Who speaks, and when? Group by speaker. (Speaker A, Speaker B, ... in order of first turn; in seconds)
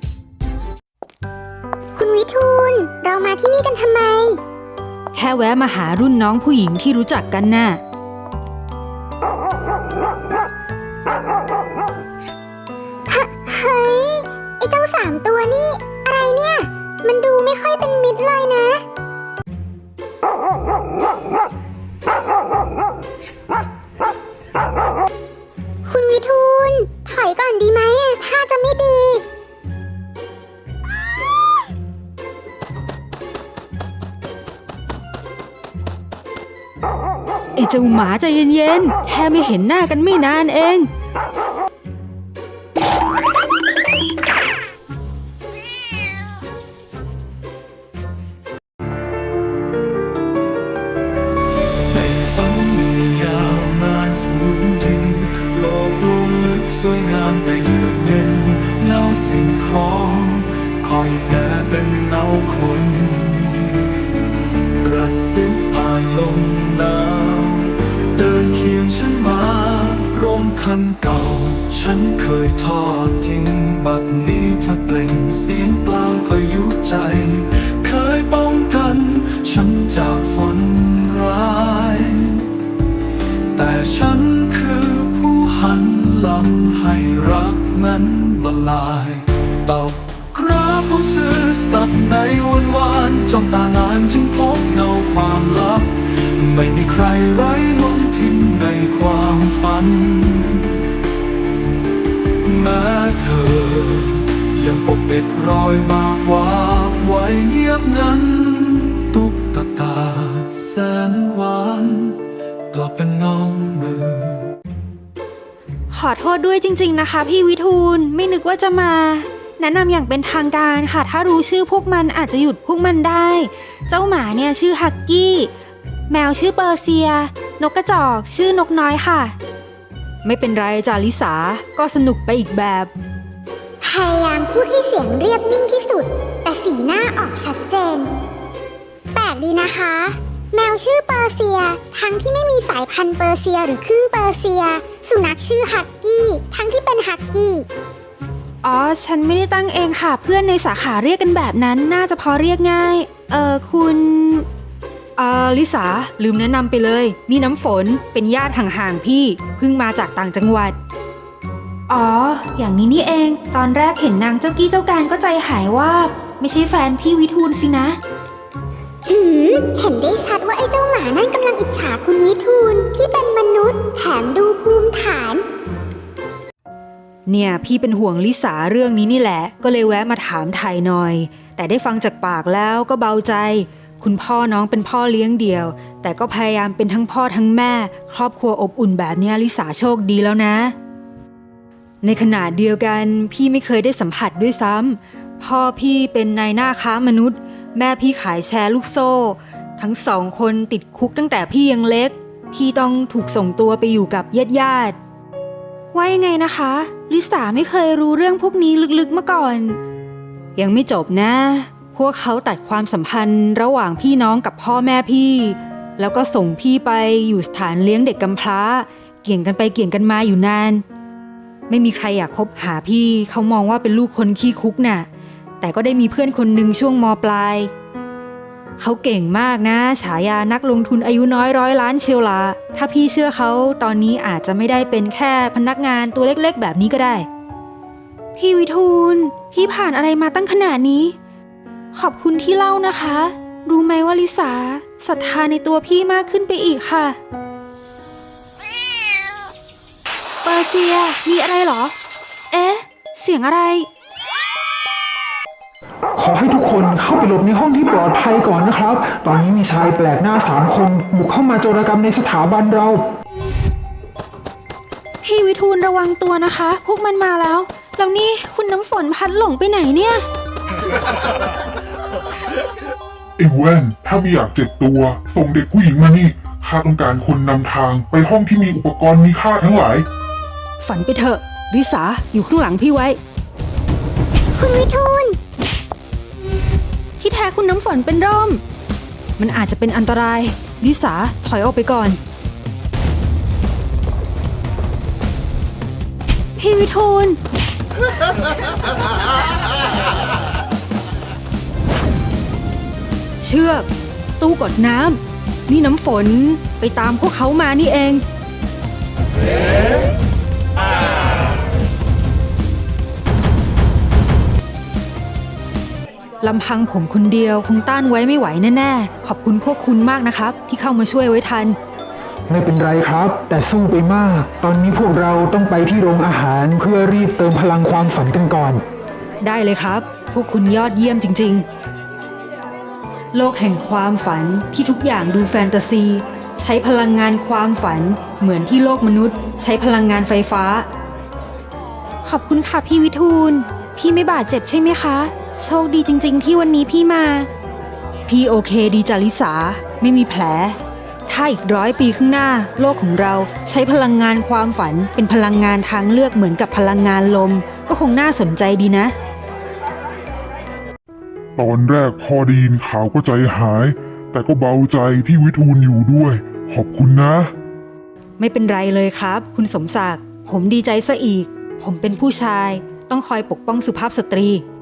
Speaker A: 1.9-4.4, 13.1-18.8, 25.9-29.2, 133.8-138.1, 139.1-147.7, 169.1-175.4, 284.6-285.4
Speaker B: 5.1-7.8, 37.5-40.9, 115.9-125.5, 126.1-129.3, 130.2-132.9, 148.6-154.4, 155.2-160.8, 161.9-168.0, 177.3-190.7, 192.0-204.9, 205.9-209.8, 210.6-220.8, 221.7-225.1, 225.6-227.7, 228.8-237.2, 238.3-241.1, 241.9-247.2, 250.4-251.9, 252.5-253.9, 265.2-270.2, 280.8-283.2, 287.2-288.6, 289.4-292.2, 296.6-297.4, 303.4-303.9, 304.4-308.2, 316.4-321.8, 329.4-331.6, 333.3-340.9, 342.2-347.5, 348.3-359.1, 368.4-374.6
Speaker C: 51.9-63.9, 64.8-82.5, 83.5-100.8, 102.4-114.5
Speaker D: 256.2-263.0, 322.5-328.8
Speaker E: 273.4-280.1, 361.6-367.5